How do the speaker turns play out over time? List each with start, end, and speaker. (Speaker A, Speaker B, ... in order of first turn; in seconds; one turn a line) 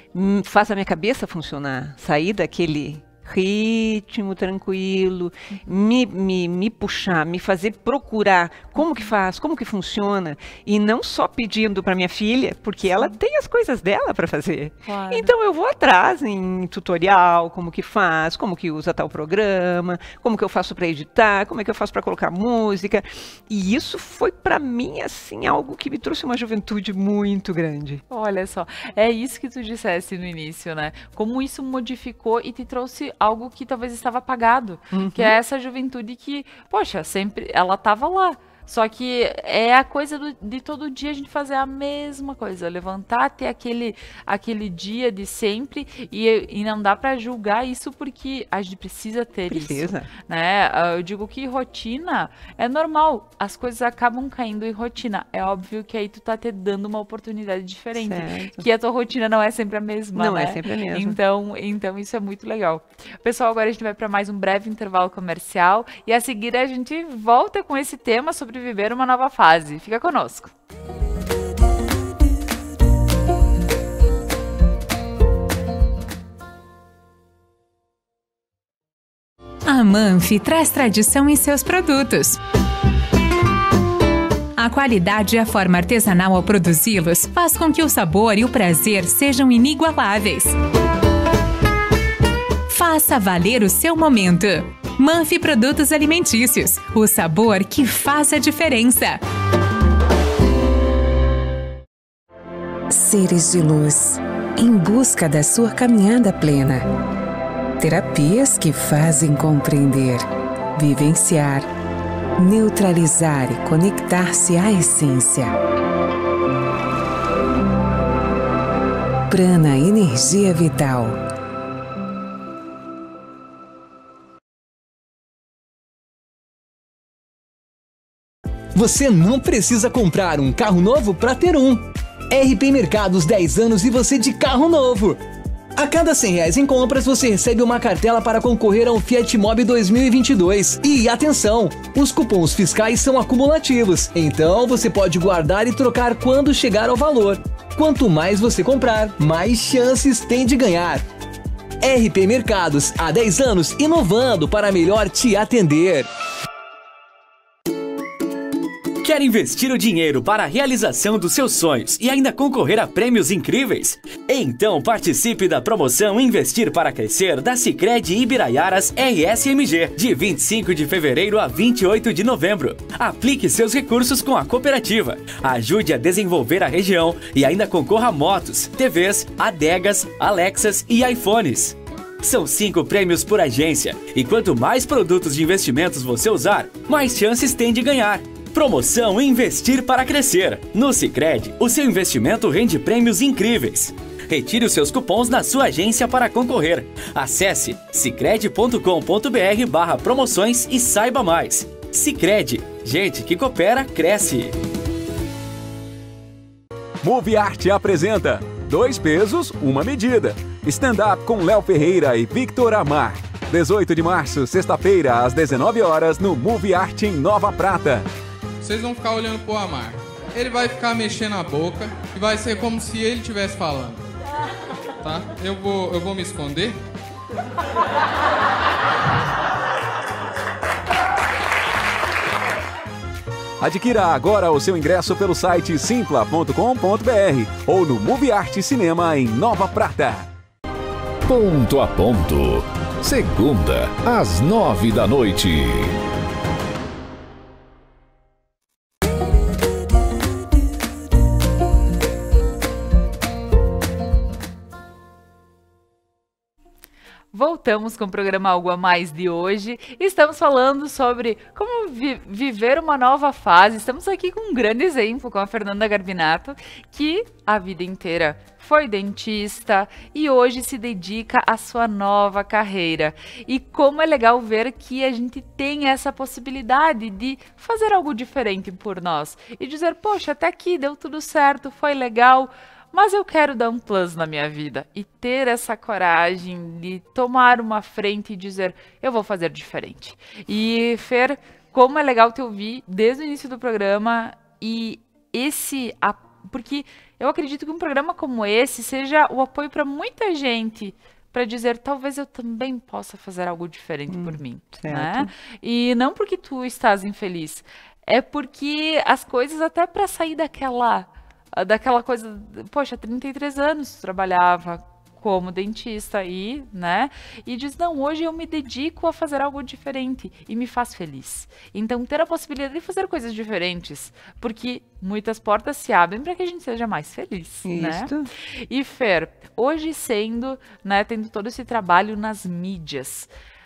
Speaker A: 0.1-28.0
Speaker B: 5.5-5.8
Speaker B: 8.8-9.1
Speaker B: 14.8-15.3
Speaker B: 28.1-70.5
Speaker A: 34.9-35.3
Speaker A: 49.5-50.1
Speaker A: 58.0-58.6
Speaker A: 60.1-61.2
Speaker C: 79.6-82.4
Speaker C: 84.5-90.6
Speaker C: 92.7-99.2
Speaker D: 102.9-106.8
Speaker D: 107.8-111.7
Speaker D: 112.4-115.5
Speaker D: 119.3-121.2
Speaker E: 128.7-135.2
Speaker E: 135.8-151.0
Speaker E: 151.8-156.1
Speaker F: 159.0-204.5
Speaker G: 207.0-218.0
Speaker H: 218.6-224.0
Speaker H: 225.0-226.8
Speaker G: 233.6-240.3
Speaker I: 241.2-245.9
Speaker B: 257.3-333.3
Speaker A: 304.1-305.3
Speaker A: 327.6-328.3